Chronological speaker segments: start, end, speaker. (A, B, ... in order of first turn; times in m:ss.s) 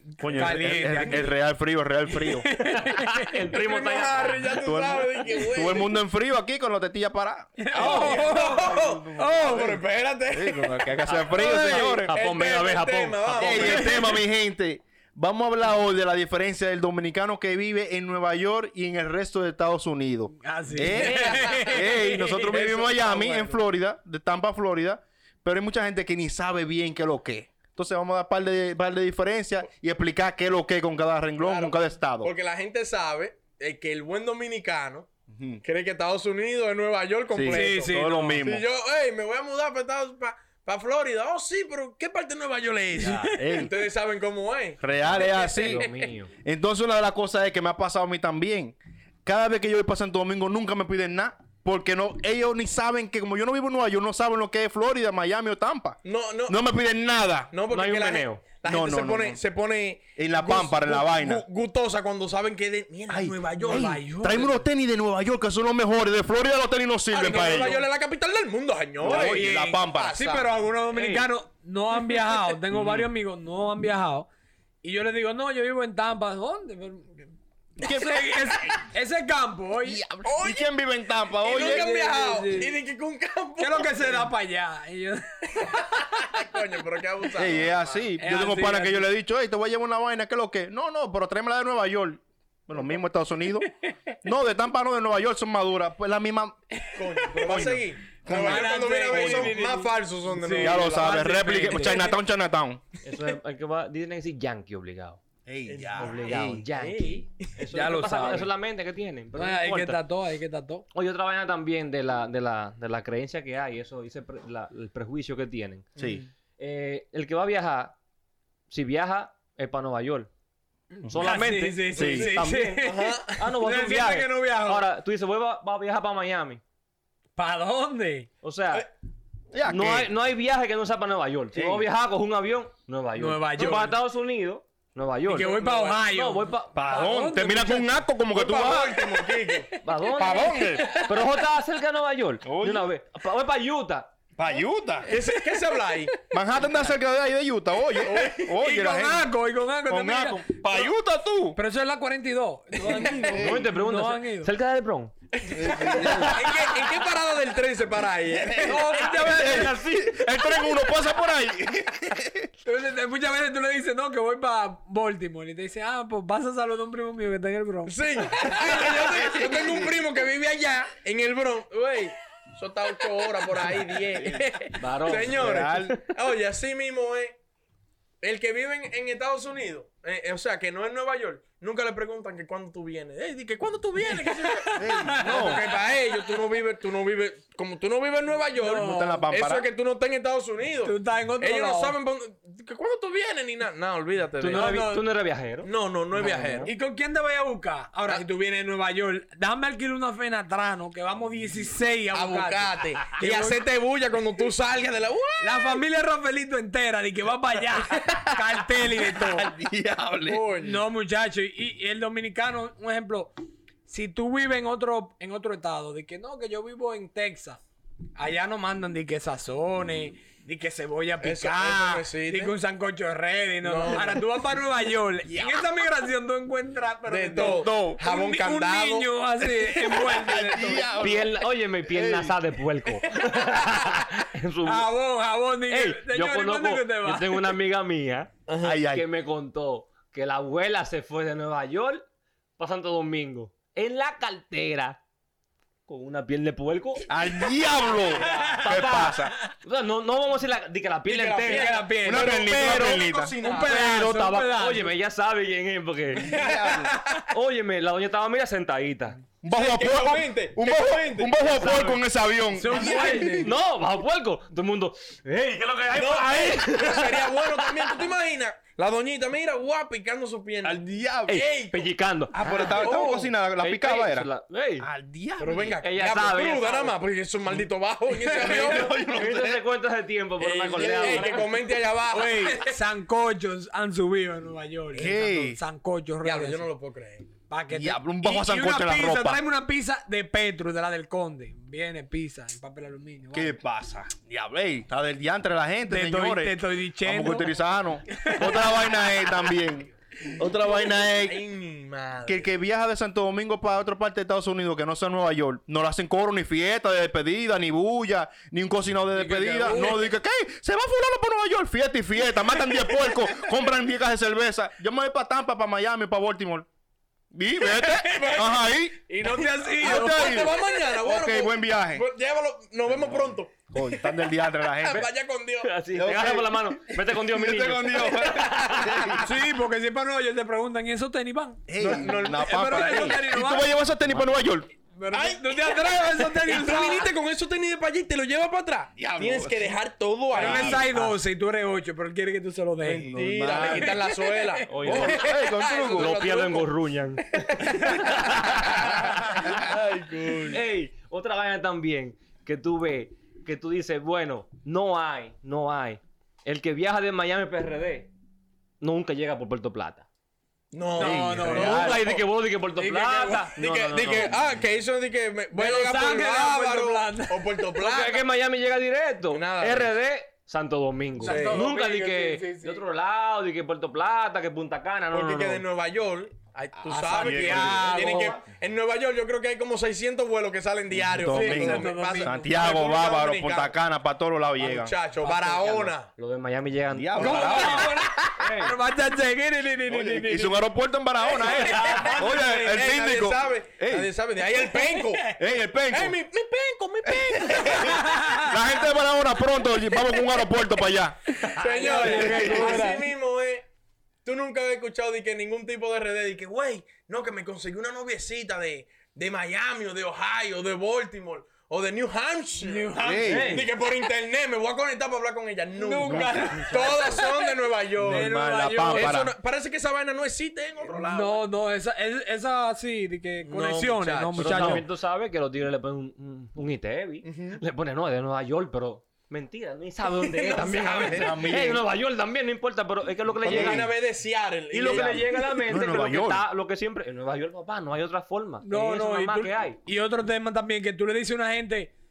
0:00.2-0:01.3 A
0:00.2-0:02.5 B
0:02.1-0:03.3 A
0:02.7-0:04.6 C
0:03.5-0:05.9 D
0:04.6-0:09.6 B
0:07.6-0:09.8 A
0:07.7-0:08.2 C
0:07.8-0:10.9 D
0:10.3-0:12.1 B
0:11.1-0:11.3 C
0:11.3-0:12.0 A
0:12.0-0:13.9 C
0:12.1-0:14.2 D
0:13.3-0:32.3 B
0:13.6-0:14.0 A
0:20.3-0:22.4 A
0:20.9-0:21.9 C
0:22.4-0:23.6 D
0:31.4-0:35.1 D
0:35.3-0:35.6 B
0:35.6-0:46.0 D
0:37.3-0:38.6 B
0:37.5-0:38.4 A
0:43.0-0:43.3 C
0:43.0-0:43.5 A
0:43.4-0:43.7 B
0:44.8-0:45.9 B
0:45.1-0:46.3 C
0:46.4-0:57.5 B
0:56.0-0:56.6 D
0:57.5-1:04.0 D
0:57.7-0:58.4 C
0:58.6-0:59.4 B
1:00.2-1:01.4 B
1:03.1-1:07.8 B
1:03.6-1:04.6 A
1:07.1-1:10.5 D
1:09.0-1:10.2 B
1:09.0-1:14.3 A
1:10.9-1:11.3 C
1:12.7-1:13.1 C
1:14.8-1:17.2 A
1:17.8-1:20.0 A
1:17.8-1:18.8 B
1:19.8-1:21.9 B
1:20.2-1:20.7 D
1:21.4-1:24.3 D
1:21.4-1:22.8 A
1:23.6-1:26.3 A
1:26.2-1:28.1 D
1:27.4-1:33.7 B
1:28.2-1:29.1 A
1:34.2-1:36.6 B
1:36.8-1:42.2 A
1:37.0-1:42.0 D
1:38.2-1:39.5 B
1:40.6-1:42.8 B
1:43.0-1:45.2 C
1:45.5-1:46.7 B
1:45.7-1:47.3 D
1:46.0-1:50.0 C
1:47.7-1:48.5 A
1:49.3-1:50.8 A
1:50.9-1:55.9 C
1:56.0-1:56.2 B
1:56.6-1:57.9 C
1:58.7-2:00.3 C
2:01.1-2:06.6 C
2:01.2-2:04.9 A
2:01.9-2:02.4 B
2:02.8-2:03.4 D
2:07.4-2:08.3 A
2:08.4-2:08.9 C
2:09.5-2:10.1 B
2:09.6-2:16.7 C
2:11.5-2:11.9 B
2:13.2-2:14.0 A
2:15.3-2:18.0 A
2:15.6-2:16.0 D
2:16.7-2:19.0 B
2:18.3-2:19.7 D
2:19.1-2:21.3 A
2:19.8-2:24.1 C
2:20.2-2:20.9 B
2:22.4-2:22.9 B
2:24.4-2:25.1 B
2:25.0-2:26.2 D
2:25.5-2:25.8 A
2:26.3-2:29.3 B
2:28.0-2:28.6 D
2:28.1-2:30.9 A
2:29.8-2:31.6 B
2:31.5-2:34.5 A
2:32.8-2:33.7 B
2:33.2-2:35.1 C
2:35.4-2:39.0 D
2:35.5-2:36.5 B
2:35.6-2:36.2 A
2:36.0-2:36.3 C
2:38.4-2:42.5 B
2:38.6-2:39.8 A
2:39.1-2:41.0 C
2:42.6-2:49.3 A
2:47.8-2:57.4 D
2:49.2-2:49.9 B
2:54.8-2:55.4 C
2:55.1-2:56.0 B
2:58.2-3:14.8 D
3:04.4-3:05.6 A
3:04.8-3:05.6 B
3:08.6-3:09.2 A
3:08.6-3:09.7 B
3:10.8-3:11.9 A
3:14.4-3:16.7 C
3:14.5-3:15.1 A
3:15.6-3:16.7 D
3:16.6-3:23.6 A
3:22.1-3:25.8 D
3:25.4-3:29.5 A
3:28.8-3:30.4 B
3:30.2-3:30.8 D
3:30.6-3:33.3 A
3:33.8-3:37.6 A
3:38.2-3:51.0 A
3:41.2-3:42.5 D
3:43.6-3:44.2 D
3:45.2-3:45.7 B
3:47.1-3:49.1 D
3:47.4-3:47.7 B
3:49.9-3:52.3 B
3:51.0-3:54.9 C
3:54.6-3:57.5 A
3:55.7-3:58.3 C
3:58.5-3:58.8 D
3:58.6-3:59.0 B
3:58.8-4:02.0 C
4:02.6-4:05.0 C
4:05.9-4:07.1 C
4:07.1-4:09.3 B
4:08.0-4:08.5 A
4:08.2-4:11.7 C
4:11.0-4:13.8 D
4:11.4-4:14.9 A
4:12.0-4:13.3 B
4:13.6-4:16.4 C
4:16.2-4:16.9 B
4:16.3-4:16.8 D
4:16.3-4:17.2 A
4:17.3-4:19.2 C
4:19.4-4:23.5 B
4:19.5-4:21.6 D
4:21.4-4:22.0 C
4:22.5-4:23.5 A
4:22.8-4:23.1 D
4:22.8-4:28.0 C
4:25.9-4:33.3 D
4:30.6-4:31.4 B
4:31.3-4:32.4 C
4:32.3-4:35.8 B
4:32.5-4:33.0 A
4:33.5-4:34.9 C
4:35.4-4:39.0 D
4:35.8-4:37.0 C
4:38.2-4:38.6 A
4:38.3-4:39.6 B
4:38.5-4:41.5 C
4:40.4-4:42.7 D
4:40.7-4:41.3 B
4:42.1-4:46.7 A
4:44.9-4:45.6 B
4:45.0-4:45.4 D
4:46.2-4:47.3 D
4:47.5-4:53.6 A
4:47.7-4:49.4 B
4:53.3-5:01.4 B
4:55.8-4:57.6 A
4:58.1-4:59.1 A
5:00.4-5:02.4 D
5:02.2-5:16.7 B
5:09.2-5:10.1 A
5:09.2-5:09.9 D
5:17.3-5:19.1 B
5:17.6-5:18.5 A
5:18.1-5:23.6 D
5:19.1-5:20.8 A
5:19.8-5:22.0 B
5:22.9-5:25.1 B
5:24.8-5:25.7 D
5:25.6-5:29.1 C
5:26.0-5:29.3 B
5:29.1-5:33.7 A
5:31.7-5:34.7 B
5:31.8-5:33.2 D
5:34.9-5:37.1 A
5:35.1-5:40.8 D
5:39.0-5:39.7 B
5:40.3-5:41.2 B
5:40.3-5:45.6 A
5:42.9-5:46.7 D
5:42.9-5:44.0 B
5:44.6-5:45.3 C
5:44.8-5:46.2 B
5:45.8-5:49.7 C
5:47.4-5:47.9 D
5:47.6-5:48.0 A
5:48.6-5:50.6 D
5:50.4-5:58.1 C
5:58.8-6:00.0 C
6:00.7-6:02.3 D
6:01.0-6:01.9 A
6:01.0-6:02.0 B
6:01.5-6:04.4 C
6:02.7-6:03.5 A
6:03.6-6:08.2 D
6:05.5-6:07.7 A
6:07.8-6:15.6 C
6:09.3-6:10.0 D
6:11.2-6:12.8 A
6:11.2-6:11.6 D
6:15.1-6:23.7 D
6:16.8-6:18.4 A
6:17.1-6:18.1 B
6:21.0-6:24.9 B
6:21.2-6:22.7 A
6:24.6-6:26.1 D
6:25.2-6:28.8 C
6:26.9-6:28.0 B
6:27.2-6:30.6 A
6:27.2-6:27.6 D
6:29.9-6:34.1 B
6:31.2-6:32.6 A
6:31.4-6:32.6 C
6:32.0-6:35.4 D
6:34.6-6:35.1 A
6:35.3-6:36.2 B
6:35.9-6:38.1 D
6:37.3-6:41.2 B
6:37.7-6:38.4 A
6:41.5-6:43.1 A
6:41.6-6:43.6 D
6:41.6-6:42.7 C
6:44.2-6:58.4 D
6:52.6-6:53.6 A
6:53.0-6:53.6 B
6:53.2-6:53.7 C
6:55.8-6:59.2 A
6:56.0-6:56.6 B
6:56.5-6:57.2 C
6:58.0-6:59.3 B
6:58.9-7:01.5 D
7:00.9-7:04.8 A
7:03.4-7:04.8 D
7:04.3-7:13.9 C
7:07.2-7:07.6 D
7:10.0-7:11.4 D
7:11.1-7:11.8 B
7:13.4-7:15.4 D
7:13.4-7:13.9 B
7:14.7-7:19.8 C
7:14.8-7:16.4 B
7:18.6-7:21.9 A